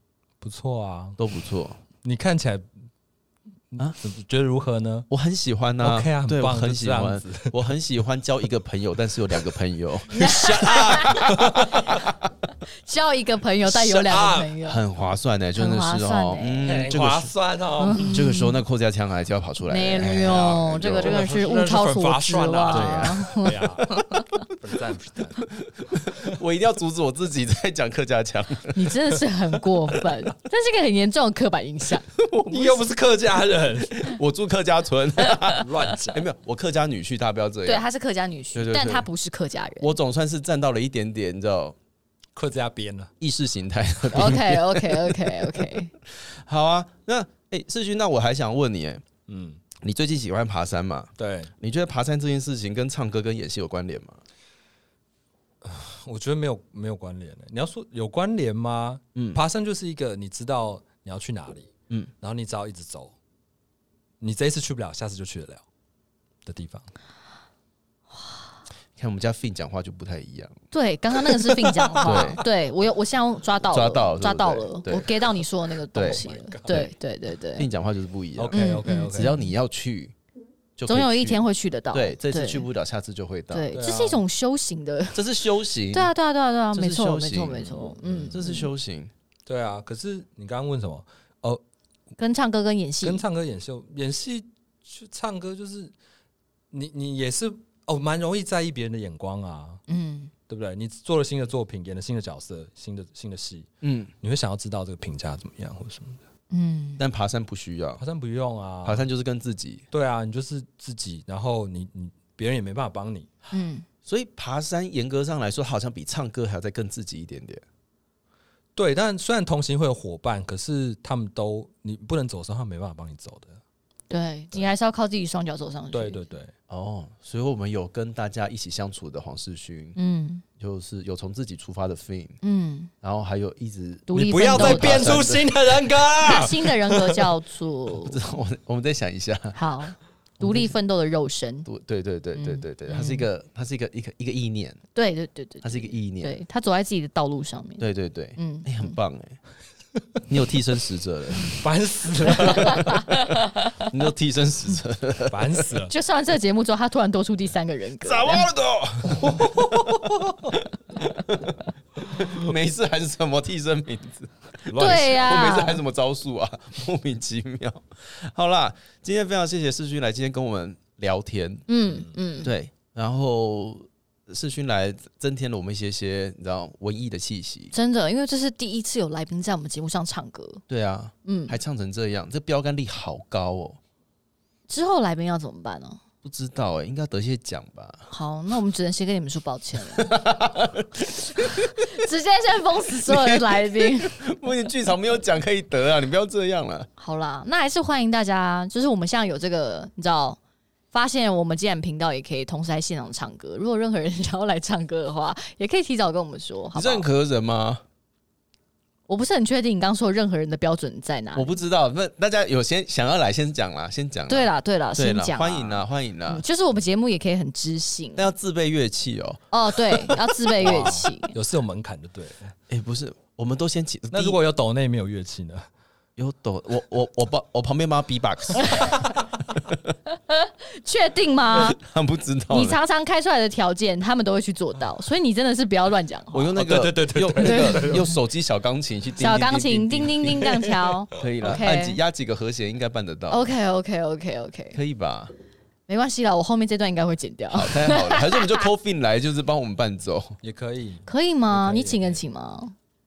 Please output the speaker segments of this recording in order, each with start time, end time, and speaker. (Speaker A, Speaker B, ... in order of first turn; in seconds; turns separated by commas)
Speaker A: 0.4-1.2, Speaker B: 1.2-1.8, Speaker A: 2.0-2.6, Speaker A: 3.7-5.1, Speaker B: 5.1-10.8, Speaker A: 5.8-7.5, Speaker C: 10.1-12.0, Speaker A: 10.1-12.0, Speaker C: 12.8-14.8, Speaker A: 13.7-14.5, Speaker B: 14.6-17.3, Speaker C: 15.6-16.7, Speaker A: 16.6-18.2, Speaker C: 17.8-18.6, Speaker B: 18.1-21.2, Speaker C: 19.6-24.3, Speaker A: 20.9-25.5, Speaker B: 22.7-23.3, Speaker B: 26.1-28.8, Speaker C: 28.7-32.0, Speaker B: 32.1-32.8, Speaker A: 32.5-34.2, Speaker B: 33.9-37.9, Speaker A: 35.4-36.3, Speaker C: 37.7-39.9, Speaker B: 38.5-39.1, Speaker B: 39.8-41.8, Speaker A: 42.4-43.1, Speaker B: 43.2-45.3, Speaker C: 44.1-45.9, Speaker B: 46.2-49.0, Speaker A: 49.3-49.6, Speaker B: 49.8-54.2, Speaker A: 51.2-51.5, Speaker A: 55.6-61.7, Speaker B: 59.2-59.4, Speaker A: 62.2-63.1, Speaker A: 64.2-65.6, Speaker A: 66.5-66.9, Speaker B: 69.0-70.6, Speaker C: 70.7-77.7, Speaker B: 72.0-72.4, Speaker A: 72.0-72.3, Speaker B: 73.7-75.1, Speaker B: 75.9-76.2, Speaker A: 76.0-76.9, Speaker B: 77.6-80.2, Speaker A: 78.4-79.4, Speaker C: 78.5-79.5, Speaker B: 80.8-83.8, Speaker C: 80.9-82.7, Speaker C: 83.5-85.2, Speaker A: 83.8-84.2, Speaker B: 85.2-86.1, Speaker C: 85.9-88.7, Speaker B: 86.7-87.8, Speaker A: 88.0-88.3, Speaker B: 88.3-89.1, Speaker A: 89.5-91.6, Speaker C: 92.2-93.2, Speaker A: 93.0-95.9, Speaker A: 96.7-99.8, Speaker C: 99.9-100.3, Speaker A: 100.5-103.7, Speaker B: 103.8-104.1, Speaker A: 104.2-106.2, Speaker C: 106.5-107.0, Speaker B: 107.0-108.0, Speaker A: 108.0-109.1, Speaker B: 108.8-109.8, Speaker A: 109.9-113.3, Speaker C: 113.5-113.8, Speaker B: 114.0-117.6, Speaker A: 118.8-123.6, Speaker C: 124.1-126.2, Speaker A: 125.9-126.5, Speaker B: 126.7-130.0, Speaker C: 130.0-130.4, Speaker B: 130.6-132.4, Speaker C: 132.4-132.9, Speaker B: 133.0-135.5, Speaker C: 134.1-135.2, Speaker A: 134.1-137.2, Speaker C: 136.2-138.2, Speaker B: 138.1-139.6, Speaker C: 139.6-141.7, Speaker B: 140.4-140.8, Speaker B: 141.7-144.8, Speaker C: 142.3-143.3, Speaker C: 144.9-147.8, Speaker B: 145.6-146.4, Speaker B: 147.8-149.4, Speaker C: 148.4-148.9, Speaker B: 150.3-151.6, Speaker A: 151.5-153.0, Speaker B: 152.4-152.7, Speaker C: 152.4-153.6, Speaker B: 153.9-155.8, Speaker A: 155.3-155.9, Speaker C: 155.9-158.5, Speaker B: 158.0-160.0, Speaker A: 159.2-160.4, Speaker B: 160.9-171.7, Speaker A: 164.7-165.4, Speaker C: 164.8-165.8, Speaker C: 171.7-172.5, Speaker B: 172.4-177.7, Speaker C: 177.7-180.6, Speaker B: 180.7-183.8, Speaker C: 181.2-181.6, Speaker C: 184.7-186.0, Speaker B: 186.2-188.1, Speaker C: 188.1-190.2, Speaker B: 190.0-191.8, Speaker C: 191.4-194.2, Speaker B: 193.1-193.4, Speaker B: 194.1-196.9, Speaker C: 197.0-200.4, Speaker C: 200.9-207.1, Speaker B: 206.8-207.8, Speaker C: 209.1-211.6, Speaker B: 211.3-216.4, Speaker C: 214.3-218.3, Speaker B: 218.2-220.2, Speaker C: 219.5-221.3, Speaker A: 220.6-222.5, Speaker B: 222.7-224.4, Speaker A: 224.1-225.7, Speaker B: 226.2-229.0, Speaker C: 230.3-231.8, Speaker B: 231.6-232.8, Speaker C: 232.5-236.5, Speaker B: 236.3-240.5, Speaker A: 236.6-238.1, Speaker C: 237.4-238.1, Speaker C: 239.2-242.0, Speaker B: 241.2-243.5, Speaker C: 243.3-244.8, Speaker B: 244.8-245.3, Speaker C: 245.9-248.6, Speaker B: 247.5-250.4, Speaker A: 250.4-252.2, Speaker C: 251.1-252.7